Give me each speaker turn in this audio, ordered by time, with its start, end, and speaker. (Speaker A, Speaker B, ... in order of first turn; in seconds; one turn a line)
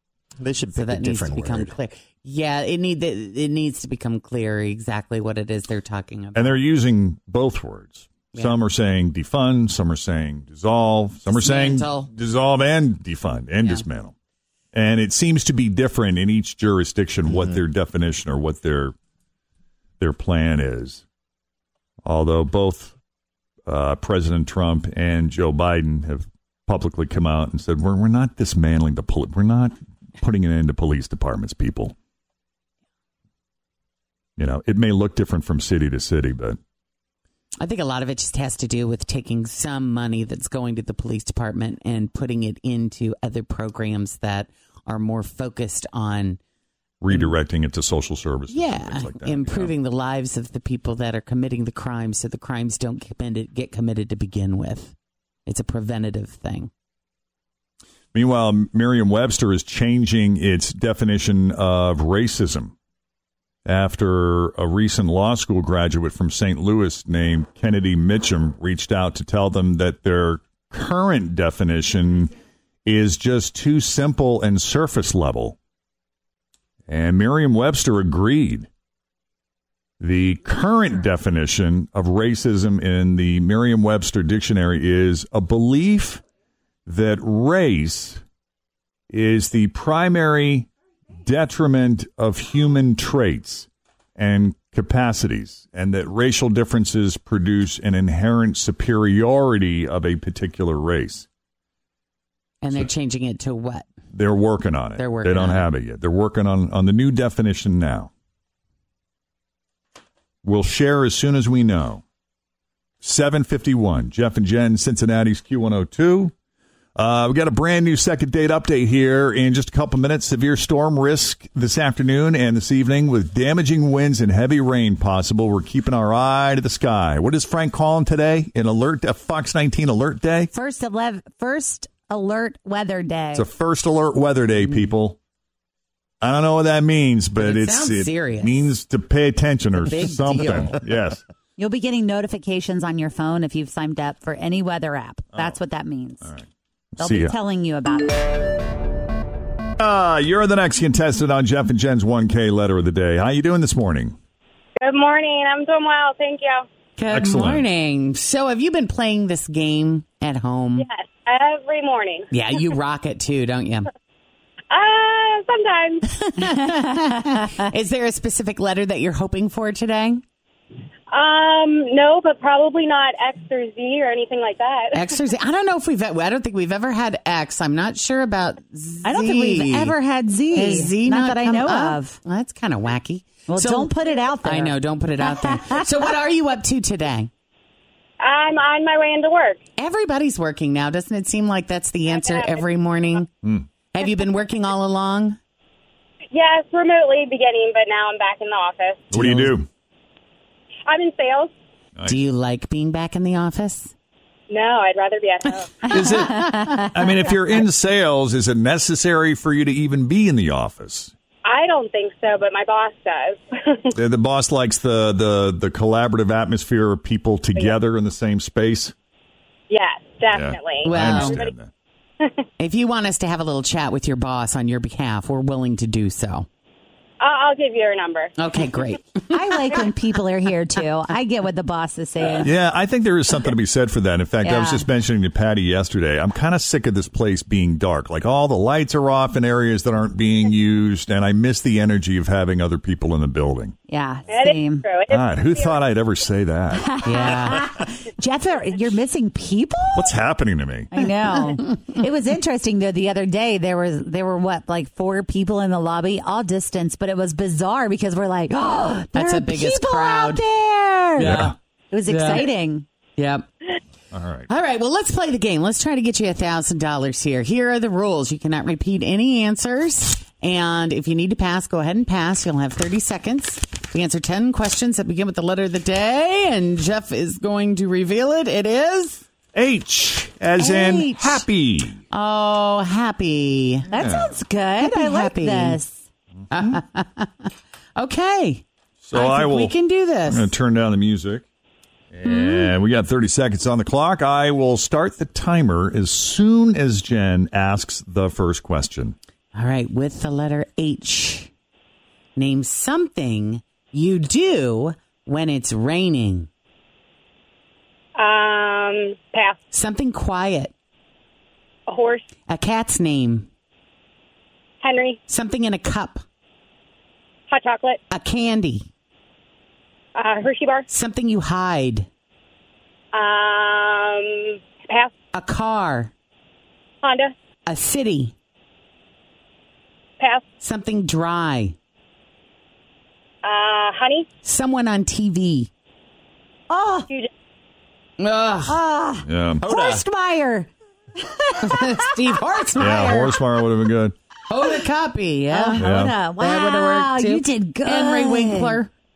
Speaker A: 0.4-1.7
Speaker B: 0.7-6.6
Speaker C: 6.3-14.1
Speaker B: 11.3-12.1
Speaker C: 14.7-18.9
Speaker A: 17.3-17.6
Speaker C: 20.0-21.0
Speaker C: 22.1-22.9
Speaker C: 23.7-31.9
Speaker C: 34.4-36.6
Speaker B: 37.6-46.4
Speaker C: 47.0-49.7
Speaker B: 48.5-54.9
Speaker B: 55.5-56.7
Speaker C: 58.1-62.7
Speaker C: 63.6-72.3
Speaker C: 72.8-75.6
Speaker C: 76.9-78.7
Speaker C: 80.0-86.2
Speaker C: 86.9-88.2
Speaker C: 89.1-101.3
Speaker B: 102.6-103.8
Speaker C: 104.1-108.1
Speaker B: 105.0-105.7
Speaker C: 110.4-112.0
Speaker C: 113.0-116.3
Speaker C: 117.0-130.5
Speaker D: 130.5-133.5
Speaker C: 133.3-135.2
Speaker C: 136.2-141.2
Speaker B: 137.4-138.7
Speaker B: 139.9-140.7
Speaker D: 141.6-146.3
Speaker C: 146.2-147.4
Speaker D: 147.0-148.4
Speaker C: 149.8-154.2
Speaker E: 154.8-156.6
Speaker B: 157.0-160.9
Speaker C: 157.1-157.6
Speaker E: 161.2-162.2
Speaker B: 162.3-163.9
Speaker E: 165.6-166.0
Speaker B: 166.1-170.2
Speaker E: 171.1-174.8
Speaker B: 174.9-179.9
Speaker D: 179.0-182.2
Speaker B: 180.5-187.3
Speaker D: 183.5-185.7
Speaker E: 188.2-189.5
Speaker B: 189.8-193.3
Speaker B: 193.9-195.4
Speaker E: 196.3-199.0
Speaker C: 199.1-199.7
Speaker B: 199.2-199.6
Speaker E: 200.9-201.5
Speaker B: 202.1-203.9
Speaker E: 204.5-205.4
Speaker B: 205.4-206.8
Speaker D: 205.9-206.8
Speaker C: 206.1-211.1
Speaker E: 211.5-213.3
Speaker C: 213.9-218.9
Speaker E: 219.7-220.3
Speaker C: 220.3-221.7
Speaker B: 220.8-221.4
Speaker B: 222.6-226.5
Speaker E: 227.2-228.3
Speaker B: 228.4-229.8
Speaker D: 229.3-232.5
Speaker C: 232.4-243.7
Speaker D: 234.4-234.8
Speaker D: 243.9-244.8
Speaker C: 245.1-246.9
Speaker D: 246.7-250.2
Speaker B: 247.0-247.6
Speaker C: 249.9-250.9
Speaker D: 250.9-262.9
Speaker B: 259.1-260.4
Speaker B: 261.2-261.5
Speaker C: 261.2-261.5
Speaker B: 262.1-262.5
Speaker B: 263.2-263.5
Speaker C: 264.1-264.5
Speaker B: 264.5-279.2
Speaker C: 279.5-282.0
Speaker D: 280.6-281.4
Speaker B: 282.1-283.9
Speaker D: 283.9-286.0
Speaker C: 284.0-284.3
Speaker B: 284.8-285.8
Speaker B: 286.5-290.5
Speaker C: 289.0-289.7
Speaker C: 290.2-291.4
Speaker C: 292.1-299.1
Speaker D: 292.2-292.7
Speaker B: 299.5-301.5
Speaker B: 302.4-306.5
Speaker E: 308.2-309.6
Speaker B: 309.7-310.7
Speaker E: 311.9-312.2
Speaker B: 312.5-313.5
Speaker E: 314.8-315.1
Speaker B: 315.3-316.2
Speaker E: 317.5-318.0
Speaker B: 318.1-318.9
Speaker E: 320.2-320.8
Speaker B: 320.9-322.1
Speaker E: 323.1-324.2
Speaker B: 325.3-326.1
Speaker E: 327.0-327.3
Speaker B: 327.7-328.3
Speaker B: 330.6-331.7
Speaker E: 333.4-334.2
Speaker B: 334.4-335.7
Speaker D: 336.7-337.1
Speaker B: 338.2-338.8
Speaker D: 338.6-342.0
Speaker C: 339.2-339.6
Speaker A: 339.6-340.0
Speaker B: 341.6-343.3
Speaker C: 342.8-344.1
Speaker B: 344.5-345.8
Speaker D: 345.5-348.8
Speaker C: 345.8-346.2
Speaker B: 346.4-348.9